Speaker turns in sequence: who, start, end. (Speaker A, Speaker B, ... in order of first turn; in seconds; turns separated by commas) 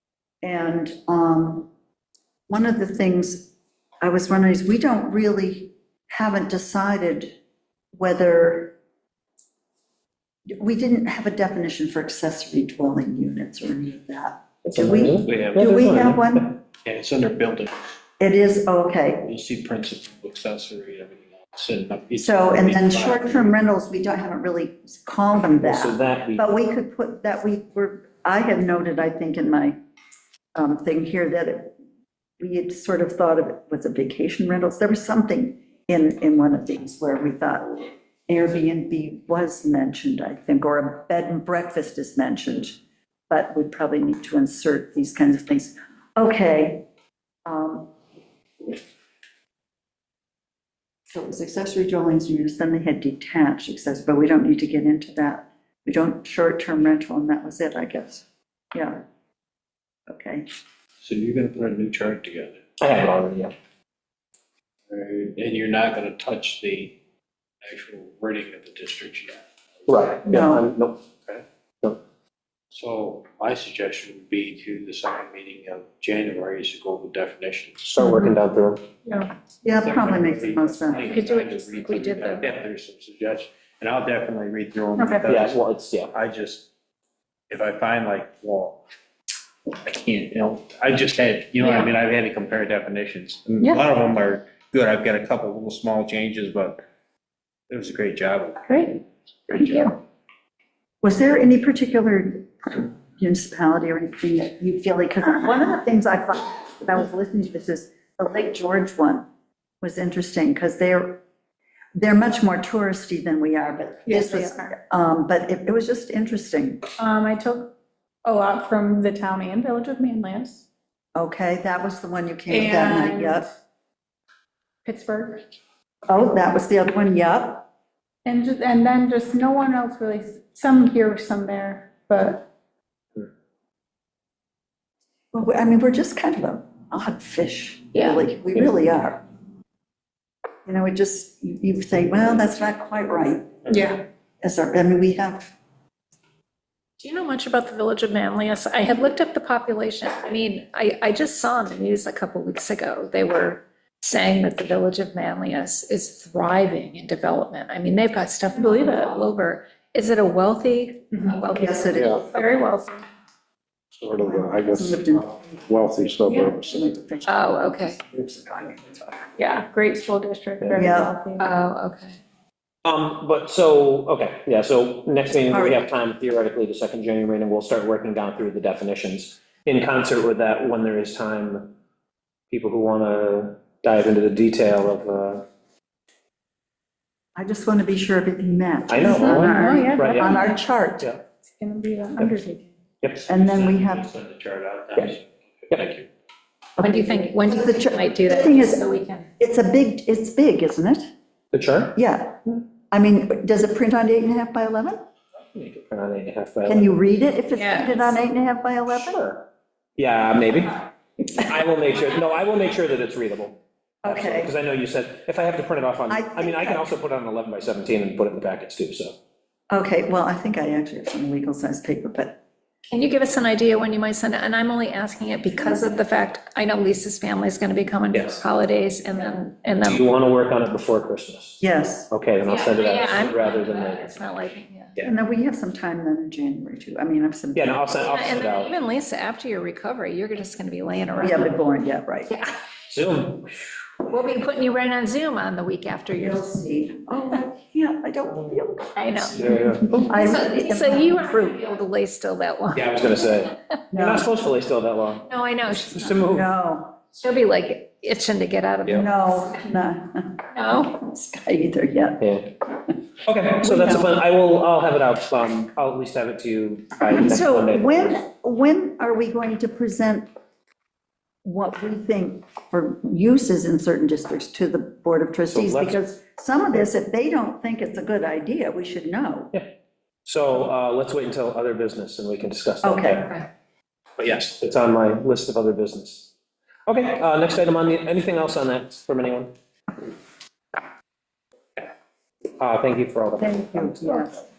Speaker A: 0.4-1.7, Speaker A: 2.5-7.3, Speaker A: 8.0-8.8, Speaker A: 10.6-16.6, Speaker B: 14.7-16.5, Speaker C: 15.2-15.8, Speaker C: 16.8-17.8, Speaker A: 18.2-19.3, Speaker C: 19.3-23.6, Speaker A: 22.2-29.8, Speaker B: 25.6-26.5, Speaker A: 30.6-31.8, Speaker A: 32.4-46.9, Speaker A: 47.5-47.9, Speaker A: 51.1-59.0, Speaker A: 60.1-60.5, Speaker C: 61.0-62.6, Speaker B: 62.8-63.5, Speaker C: 64.9-67.0, Speaker C: 67.6-69.4, Speaker B: 69.9-71.0, Speaker A: 70.3-70.7, Speaker C: 72.7-78.1, Speaker B: 77.9-78.8, Speaker A: 79.6-81.2, Speaker C: 79.7-86.7, Speaker D: 81.0-82.5, Speaker B: 85.2-86.1, Speaker C: 87.5-88.8, Speaker C: 89.7-96.8, Speaker D: 91.6-91.9, Speaker C: 97.7-98.7, Speaker D: 98.7-100.0, Speaker C: 99.5-99.9, Speaker A: 101.0-109.2, Speaker A: 109.8-111.2, Speaker A: 112.0-116.8, Speaker E: 114.1-114.7, Speaker E: 117.0-120.7, Speaker A: 121.2-123.5, Speaker E: 122.5-123.4, Speaker E: 124.8-125.4, Speaker A: 126.1-127.7, Speaker E: 128.3-132.5, Speaker A: 135.3-139.2, Speaker D: 137.9-138.2, Speaker A: 140.7-143.9, Speaker E: 143.7-144.0, Speaker A: 144.4-145.5, Speaker D: 147.0-162.4, Speaker E: 158.6-159.1, Speaker A: 161.5-162.2, Speaker E: 162.3-163.0, Speaker F: 164.0-165.0, Speaker A: 164.2-165.6, Speaker F: 165.7-166.8, Speaker A: 166.3-169.2, Speaker D: 167.2-168.0, Speaker E: 169.4-171.5, Speaker A: 170.7-171.2, Speaker D: 171.4-172.2, Speaker B: 172.8-181.8, Speaker A: 175.5-175.8, Speaker B: 182.5-185.5, Speaker A: 187.4-191.1, Speaker B: 188.9-190.5, Speaker E: 189.2-190.6, Speaker E: 191.6-192.7, Speaker B: 193.0-193.3, Speaker C: 193.2-196.1, Speaker A: 193.3-194.1, Speaker A: 196.8-198.8, Speaker D: 196.8-199.3, Speaker A: 199.4-201.1, Speaker B: 201.5-202.0, Speaker A: 201.9-205.1, Speaker B: 205.6-206.9, Speaker A: 206.7-209.3, Speaker D: 207.5-208.2, Speaker B: 208.9-219.2, Speaker A: 214.0-214.5, Speaker A: 216.1-216.9, Speaker A: 219.7-222.4, Speaker D: 222.9-230.1, Speaker B: 228.1-228.4, Speaker B: 229.8-234.2, Speaker A: 231.6-232.1, Speaker D: 232.5-235.0, Speaker A: 235.0-237.9, Speaker B: 237.5-238.7, Speaker D: 238.0-241.6, Speaker A: 241.2-242.3, Speaker D: 242.3-242.6, Speaker B: 242.9-243.7, Speaker D: 244.1-246.5, Speaker A: 246.2-248.9, Speaker D: 249.0-253.3, Speaker B: 249.3-250.1, Speaker A: 250.1-251.5, Speaker B: 252.7-255.3, Speaker A: 253.9-254.3, Speaker D: 255.2-256.3, Speaker B: 255.8-256.5, Speaker A: 256.2-257.0, Speaker D: 257.1-259.1, Speaker A: 258.9-260.4, Speaker D: 260.5-260.9, Speaker A: 260.9-262.3, Speaker B: 262.2-262.5, Speaker B: 263.2-268.2, Speaker A: 263.6-264.1, Speaker A: 267.1-270.3, Speaker A: 271.4-279.5, Speaker B: 275.5-276.0, Speaker B: 280.2-283.2, Speaker A: 282.8-283.3, Speaker D: 283.2-283.5, Speaker B: 284.2-286.3, Speaker B: 286.9-289.5, Speaker B: 292.6-294.1, Speaker A: 293.4-294.4